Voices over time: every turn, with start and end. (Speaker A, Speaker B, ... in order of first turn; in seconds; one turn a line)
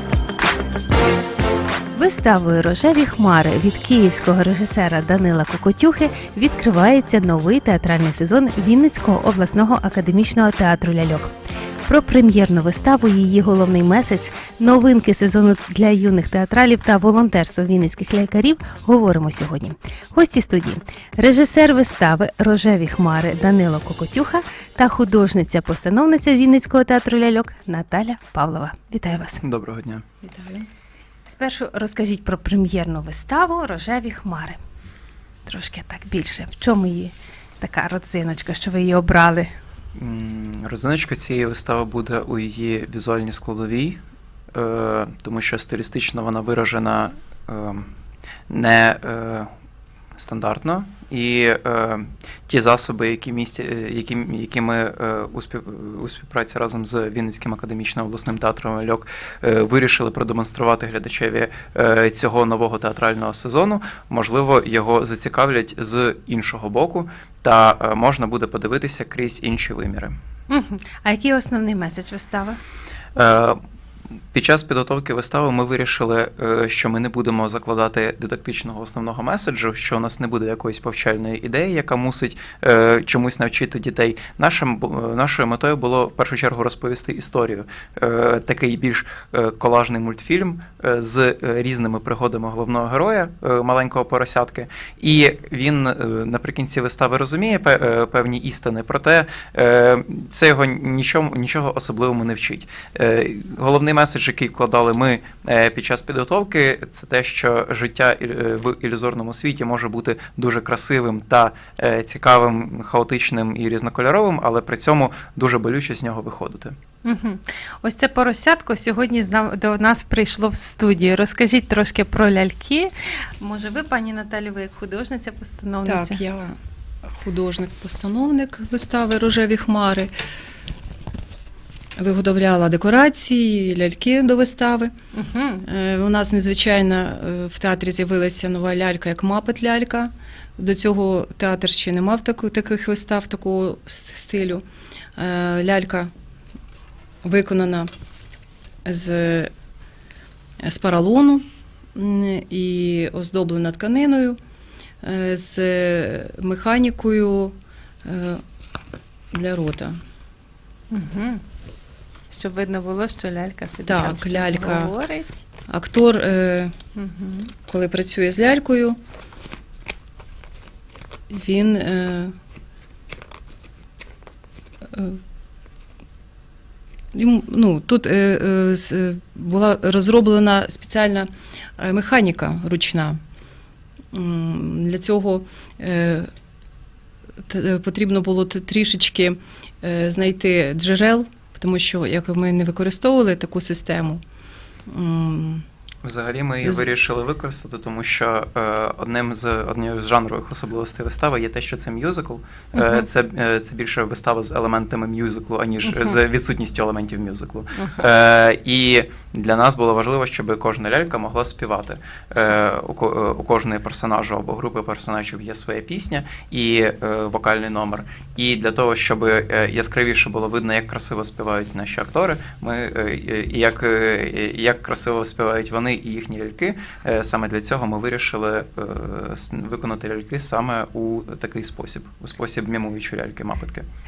Speaker A: 1.9-11.3
Speaker A: 11.8-29.4
Speaker B: 29.4-30.0
Speaker C: 30.2-30.7
Speaker A: 31.3-34.6
Speaker A: 35.5-39.5
Speaker B: 39.9-44.0
Speaker B: 44.5-47.9
Speaker B: 48.5-49.5
Speaker B: 50.2-70.1
Speaker A: 70.5-72.6
Speaker B: 73.1-73.6
Speaker B: 74.3-116.8
Speaker A: 117.0-126.2
Speaker C: 125.8-130.1
Speaker C: 132.0-134.9
Speaker A: 135.1-135.6
Speaker C: 135.6-144.6
Speaker C: 145.2-146.1
Speaker C: 147.2-147.9
Speaker C: 148.8-149.5
Speaker C: 150.6-154.4
Speaker C: 155.0-158.4
Speaker C: 159.3-160.0
Speaker A: 160.9-161.4
Speaker A: 162.3-165.4
Speaker C: 163.8-164.9
Speaker C: 165.7-166.7
Speaker A: 166.9-167.5
Speaker C: 167.7-169.0
Speaker C: 171.3-172.3
Speaker C: 174.9-175.2
Speaker C: 177.1-183.2
Speaker C: 184.1-186.3
Speaker C: 187.5-194.2
Speaker C: 194.9-195.6
Speaker B: 196.0-233.8
Speaker A: 202.8-203.0
Speaker A: 207.7-208.1